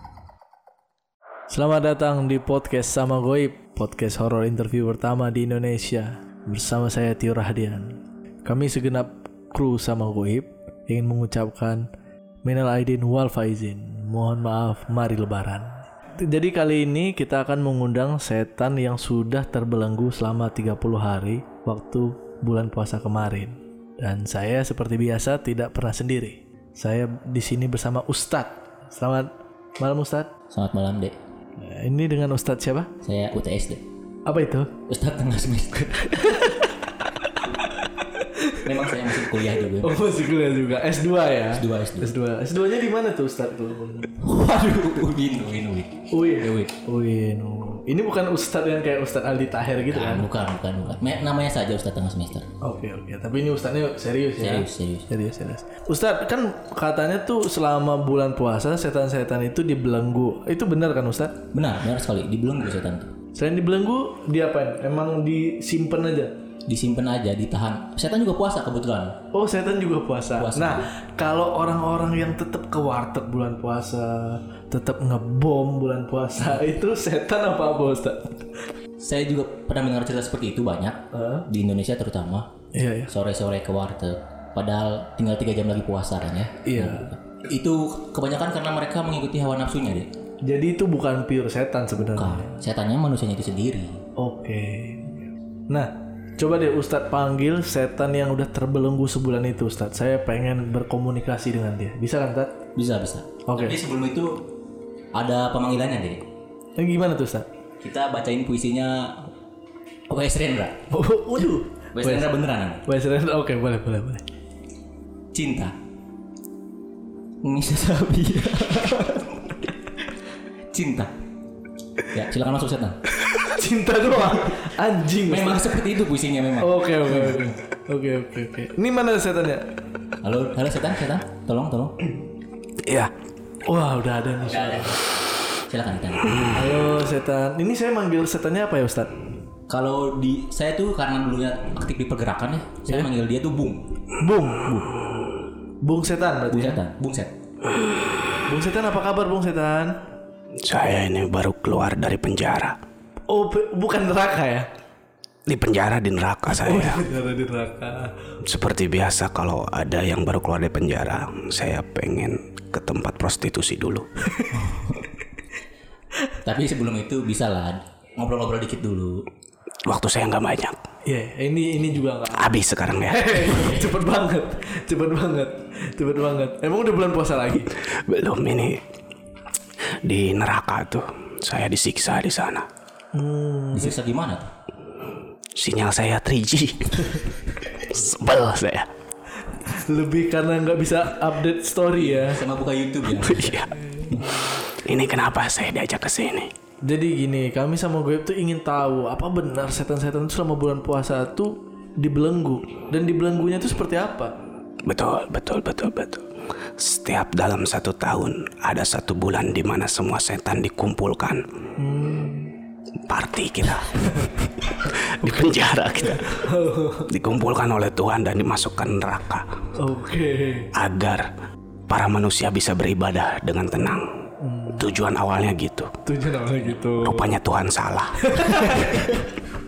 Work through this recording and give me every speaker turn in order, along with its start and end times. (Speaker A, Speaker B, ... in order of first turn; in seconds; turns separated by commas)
Speaker A: 1.5-11.8, Speaker A: 12.4-30.3, Speaker B: 30.5-31.2, Speaker A: 31.6-32.9, Speaker B: 33.0-33.8, Speaker A: 34.3-34.7, Speaker B: 34.9-36.3, Speaker A: 36.1-36.6, Speaker A: 38.2-38.6, Speaker B: 38.6-39.9, Speaker A: 39.8-44.2, Speaker B: 41.5-42.1, Speaker B: 44.2-46.8, Speaker A: 46.1-50.3, Speaker B: 49.9-52.5, Speaker A: 52.6-61.4, Speaker B: 54.4-55.1, Speaker B: 61.5-63.1, Speaker A: 63.3-66.3, Speaker B: 66.7-69.2, Speaker A: 69.3-78.3, Speaker B: 70.3-70.8, Speaker B: 79.0-82.5, Speaker A: 81.1-81.5, Speaker A: 82.7-83.1, Speaker B: 83.1-90.1, Speaker A: 86.6-87.1, Speaker A: 90.5-92.4, Speaker B: 92.0-94.0, Speaker A: 94.2-102.6, Speaker B: 102.8-104.5, Speaker A: 103.5-103.8, Speaker B: 105.2-106.2, Speaker A: 106.8-107.5, Speaker B: 107.8-109.3, Speaker B: 110.1-110.8, Speaker A: 110.9-112.3, Speaker B: 111.9-112.8, Speaker A: 112.8-114.2, Speaker B: 115.3-115.8, Speaker B: 117.4-119.1, Speaker B: 120.7-121.1, Speaker B: 122.1-123.0, Speaker A: 123.3-125.8, Speaker B: 125.3-127.5, Speaker A: 126.6-129.6, Speaker B: 130.2-132.0, Speaker C: 132.9-133.1, Speaker A: 133.7-135.0, Speaker B: 134.5-135.1, Speaker B: 135.7-136.7, Speaker A: 136.4-139.1, Speaker B: 139.7-143.9, Speaker A: 144.2-144.9, Speaker A: 145.8-146.8, Speaker B: 146.5-147.3, Speaker A: 148.5-150.0, Speaker C: 150.6-152.8, Speaker A: 153.3-154.7, Speaker C: 155.5-157.0, Speaker A: 156.5-158.2, Speaker C: 158.4-164.1, Speaker A: 164.3-164.6, Speaker B: 164.5-165.1, Speaker B: 166.4-169.2, Speaker C: 169.9-170.8, Speaker A: 171.1-177.7, Speaker C: 172.4-173.7, Speaker B: 173.6-173.9, Speaker C: 177.9-178.8, Speaker C: 180.0-182.7, Speaker A: 183.1-184.0, Speaker B: 183.7-184.5, Speaker C: 185.6-188.9, Speaker A: 189.6-192.4, Speaker B: 192.0-194.2, Speaker C: 193.1-193.7, Speaker A: 193.9-194.4, Speaker C: 194.5-196.5, Speaker A: 196.8-204.3, Speaker C: 204.9-206.3, Speaker C: 206.8-211.4, Speaker A: 211.8-212.5, Speaker C: 213.1-216.5, Speaker A: 215.2-215.5, Speaker A: 216.1-217.1, Speaker C: 217.1-219.5, Speaker A: 219.8-220.7, Speaker C: 220.8-221.3, Speaker C: 221.9-224.1, Speaker A: 224.4-224.9, Speaker C: 224.8-225.9, Speaker A: 226.1-227.3, Speaker C: 227.0-228.9, Speaker A: 228.2-229.3